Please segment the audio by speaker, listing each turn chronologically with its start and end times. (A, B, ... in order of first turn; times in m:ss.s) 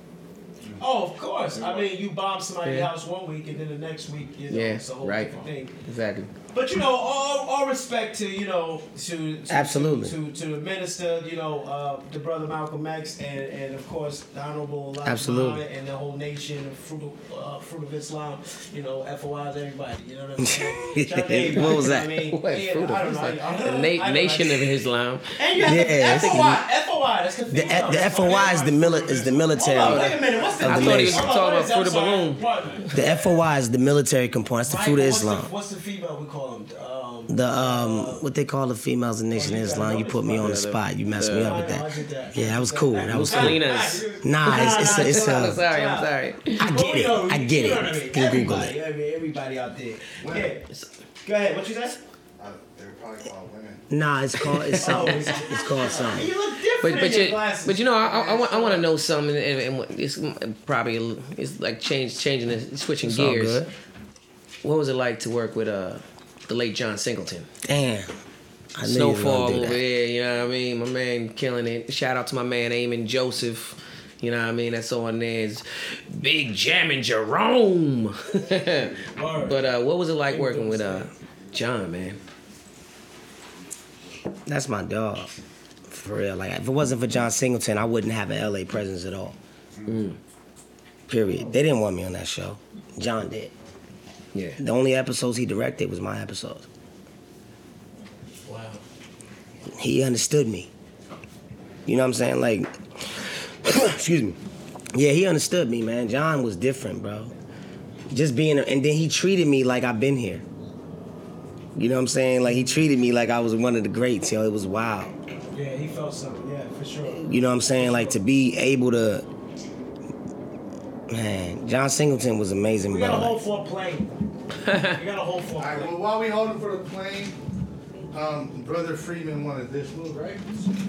0:00.8-0:05.8 A
0:04.5-0:06.3 B
0:06.5-0:24.7 A
0:09.5-0:10.2 C
0:15.0-0:15.6 C
0:20.4-0:22.1 C
0:21.9-0:25.3 B
0:25.4-0:33.1 A
0:25.6-0:26.6 C
0:26.0-0:26.4 B
0:27.5-0:31.3 C
0:29.8-0:32.4 B
0:32.9-0:35.5 C
0:34.6-0:38.2 A
0:37.3-0:43.6 C
0:39.3-0:40.5 A
0:40.4-0:41.6 B
0:41.3-0:50.6 A
0:43.1-0:46.6 B
0:44.2-0:45.6 C
0:46.6-0:48.8 C
0:50.2-0:50.5 D
0:51.2-0:52.0 A
0:52.4-0:53.8 D
0:53.9-0:56.3 C
0:54.5-0:55.2 B
0:54.8-0:57.9 A
0:56.8-1:03.6 B
0:58.0-0:58.6 D
0:58.4-0:58.8 A
1:03.0-1:03.7 C
1:04.6-1:07.5 B
1:07.6-1:08.2 C
1:08.7-1:09.8 C
1:08.8-1:18.9 B
1:19.0-1:19.7 A
1:19.5-1:22.2 B
1:20.3-1:21.1 A
1:24.4-1:25.3 C
1:25.9-1:29.4 C
1:29.9-1:30.2 B
1:31.1-1:33.5 C
1:34.3-1:34.6 B
1:34.6-1:36.7 C
1:38.5-1:38.8 A
1:39.8-1:40.7 C
1:41.8-1:44.4 C
1:44.9-1:47.3 C
1:48.1-1:50.4 C
1:51.8-1:55.1 C
1:55.5-1:58.1 A
1:57.1-1:59.2 C
2:01.1-2:03.4 C
2:02.9-2:04.1 A
2:04.6-2:05.0 B
2:04.9-2:06.0 A
2:05.6-2:07.4 D
2:08.1-2:10.6 D